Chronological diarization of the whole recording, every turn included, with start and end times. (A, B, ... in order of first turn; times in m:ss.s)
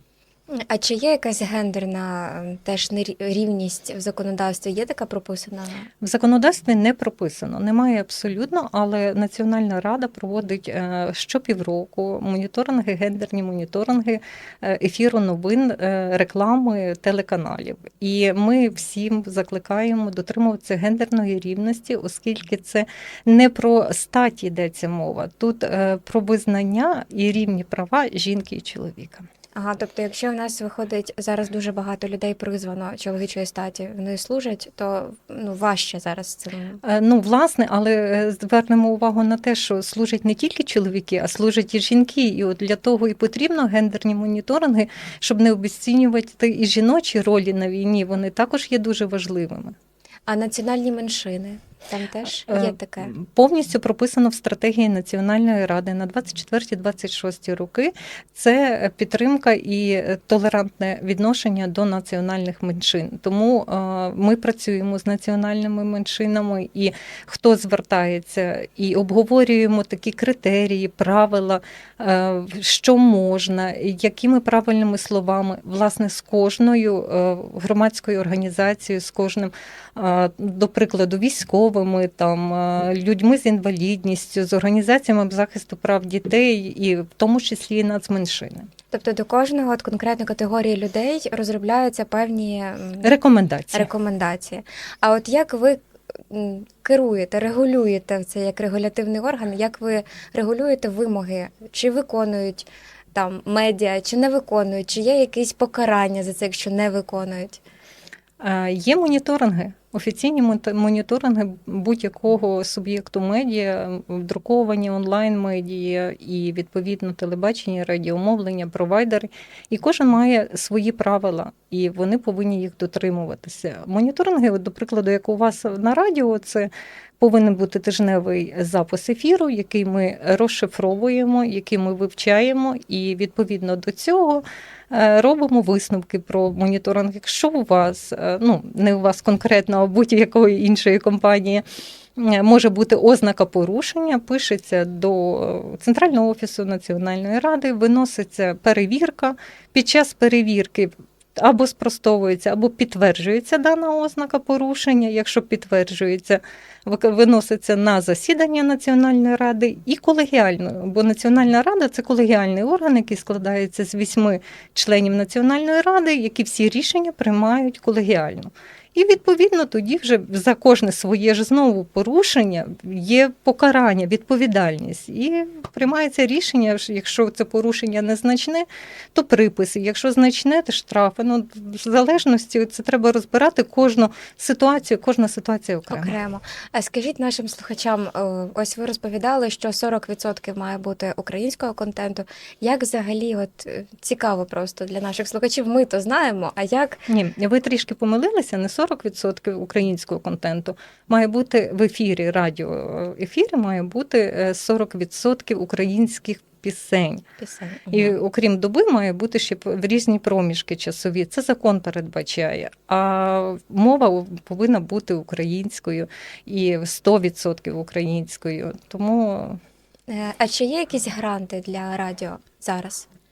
0:00.5-0:05.9 A
0:06.0-0:29.2 B
0:29.5-0:36.8 A
0:36.8-0:49.7 B
0:50.3-0:53.1 A
0:52.5-1:28.7 B
1:28.9-1:33.1 A
1:33.0-1:33.9 B
1:33.7-1:35.8 A
1:36.3-1:47.6 A
1:48.4-2:21.6 B
2:22.2-3:06.1 B
3:05.9-3:17.0 A
3:17.1-3:27.2 B
3:27.4-3:28.2 A
3:27.9-3:39.6 B
3:40.1-3:43.1 A